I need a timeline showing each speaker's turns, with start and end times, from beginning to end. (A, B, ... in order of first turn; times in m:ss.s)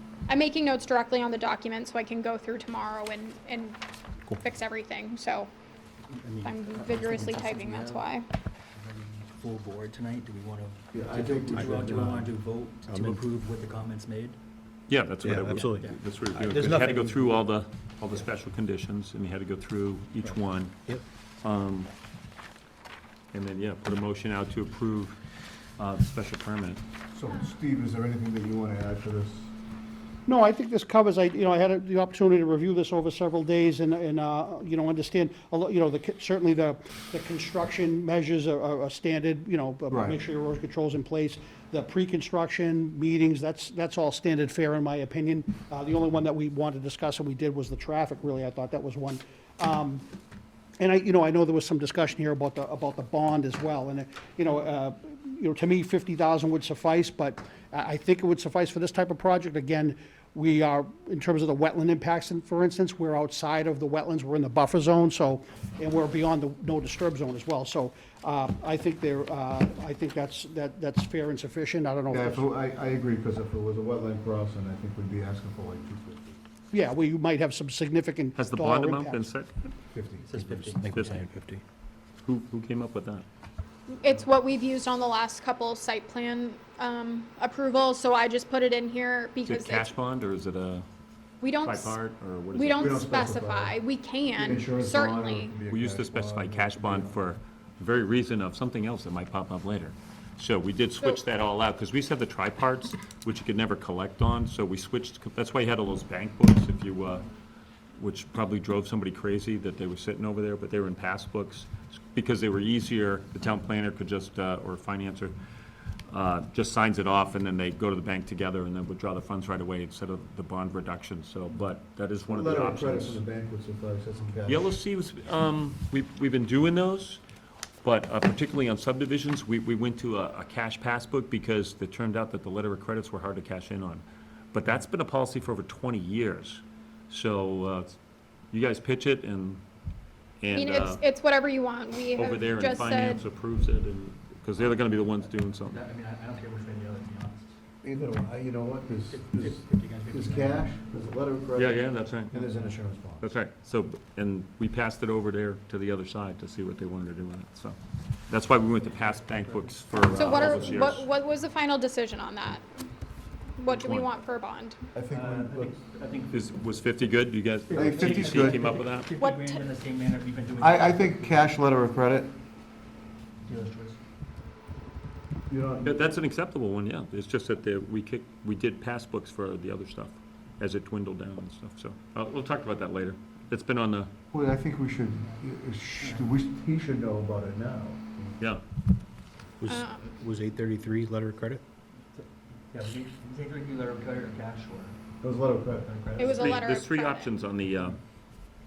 0:00.3-0:03.8 A
0:04.4-0:05.5 A
0:06.1-0:08.2 B
0:06.4-0:08.2 A
0:08.8-0:14.4 B
0:10.9-0:12.3 C
0:11.5-0:11.8 D
0:12.9-0:13.2 D
0:14.9-0:20.8 E
0:15.2-0:17.0 D
0:15.5-0:16.2 B
0:16.8-0:17.5 B
0:21.4-0:21.9 E
0:23.3-0:25.2 E
0:25.8-0:26.8 E
0:27.1-0:29.5 C
0:30.3-0:50.1 F
0:39.9-0:40.2 C
0:50.8-1:12.5 F
1:12.1-1:16.4 C
1:16.7-1:19.3 F
1:18.4-1:19.7 E
1:19.9-1:20.7 C
1:20.2-1:21.1 B
1:20.8-1:21.6 D
1:20.9-1:21.2 E
1:22.2-1:23.2 E
1:23.9-1:29.9 A
1:29.5-1:30.9 E
1:31.4-1:32.0 A
1:31.6-1:33.1 E
1:32.5-1:35.6 A
1:32.8-1:33.8 C
1:34.3-1:37.2 C
1:35.7-1:47.3 E
1:48.0-1:55.4 E
1:56.1-2:03.2 E
2:02.3-2:04.7 C
2:04.5-2:07.2 E
2:07.8-2:18.0 E
2:18.5-2:19.6 E
2:20.4-2:21.0 E
2:20.5-2:23.2 A
2:22.1-2:25.8 E
2:25.6-2:27.5 B
2:27.8-2:31.8 C
2:29.1-2:30.8 B
2:31.6-2:32.4 E
2:32.3-2:33.2 C
2:33.2-2:37.8 E
2:38.3-2:41.1 E
2:39.1-2:39.7 B
2:40.2-2:42.6 A
2:40.2-2:41.0 C
2:43.6-2:44.8 A
2:43.7-2:44.1 E
2:45.0-2:45.7 C
2:45.1-2:46.5 B
2:46.3-2:49.1 E
2:47.7-2:51.5 B
2:47.7-2:48.6 C
2:49.2-2:49.8 A
2:50.6-2:52.3 C
2:53.4-2:54.0 B
2:55.5-2:56.0 C
2:55.8-3:04.1 E
3:04.3-3:08.4 C
3:06.0-3:06.3 B
3:09.6-3:11.6 D
3:09.7-3:10.1 A
3:12.2-3:15.0 B
3:15.2-3:16.3 C
3:15.8-3:16.6 B
3:16.2-3:17.4 A
3:16.3-3:18.0 E